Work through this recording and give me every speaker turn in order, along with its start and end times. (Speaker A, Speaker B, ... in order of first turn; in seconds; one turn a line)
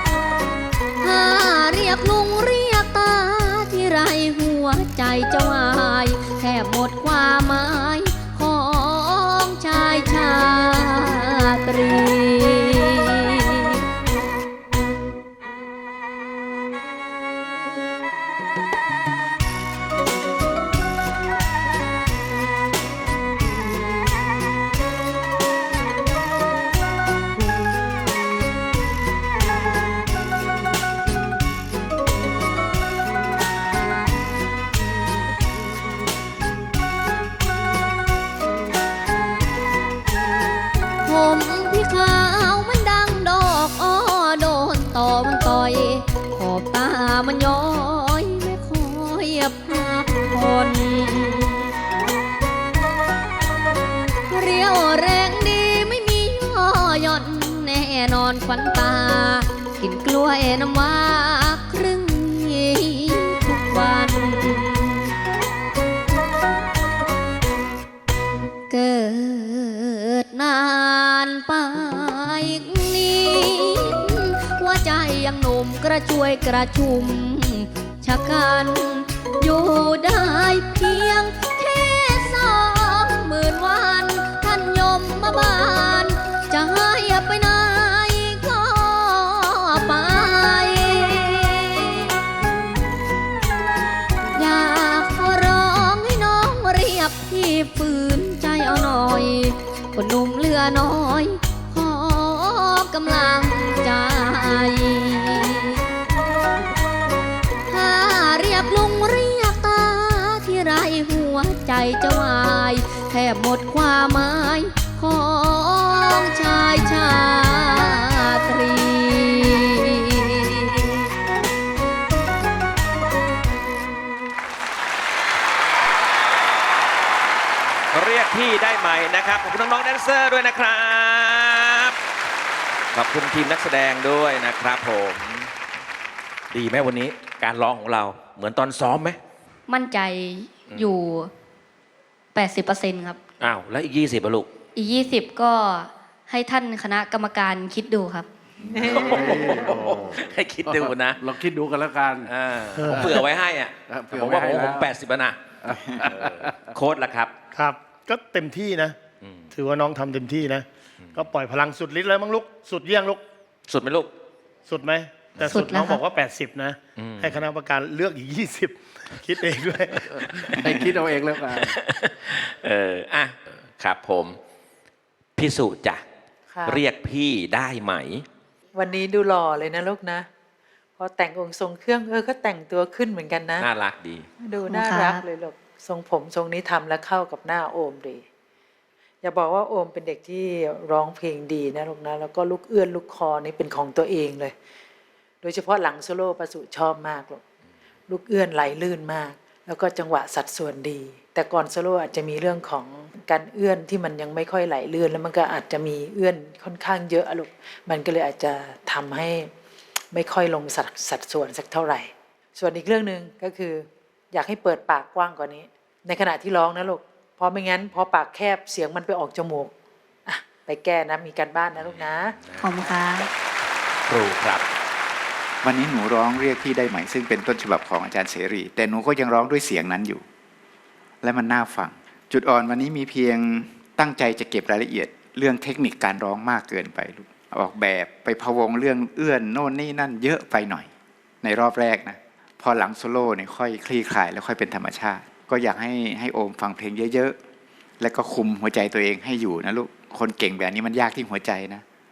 Speaker A: 1.0-13.8
Speaker A: 41.0-51.7
Speaker A: 54.3-65.1
Speaker A: 68.7-92.2
Speaker A: 94.3-105.8
Speaker A: 107.7-121.1
Speaker B: 127.9-131.9
Speaker B: 132.9-135.5
Speaker B: 136.5-139.2
Speaker C: 139.7-141.3
Speaker C: 142.3-143.2
Speaker B: 143.4-144.5
Speaker C: 144.8-148.3
Speaker D: 148.6-149.7
Speaker B: 148.7-151.2
Speaker E: 149.0-152.3
Speaker B: 152.2-155.4
Speaker F: 152.8-153.2
Speaker E: 152.8-153.2
Speaker E: 153.9-154.9
Speaker E: 155.6-156.6
Speaker B: 156.0-157.3
Speaker F: 157.5-159.0
Speaker F: 159.5-163.2
Speaker B: 163.7-164.1
Speaker F: 164.7-170.3
Speaker C: 165.5-166.0
Speaker B: 167.0-167.4
Speaker E: 170.2-171.8
Speaker B: 170.4-170.9
Speaker B: 171.5-174.4
Speaker B: 175.4-176.0
Speaker D: 176.5-176.8
Speaker B: 176.7-178.2
Speaker D: 178.8-180.3
Speaker D: 181.0-183.7
Speaker B: 183.6-184.2
Speaker D: 184.4-188.2
Speaker A: 184.7-185.1
Speaker D: 189.2-194.5
Speaker D: 195.4-197.4
Speaker D: 198.1-209.5
Speaker D: 210.1-219.7
Speaker D: 220.2-223.3
Speaker B: 221.8-222.7
Speaker C: 222.6-223.3
Speaker B: 224.1-224.6
Speaker G: 225.6-230.2
Speaker G: 231.2-240.9
Speaker G: 241.4-247.4
Speaker G: 248.0-251.8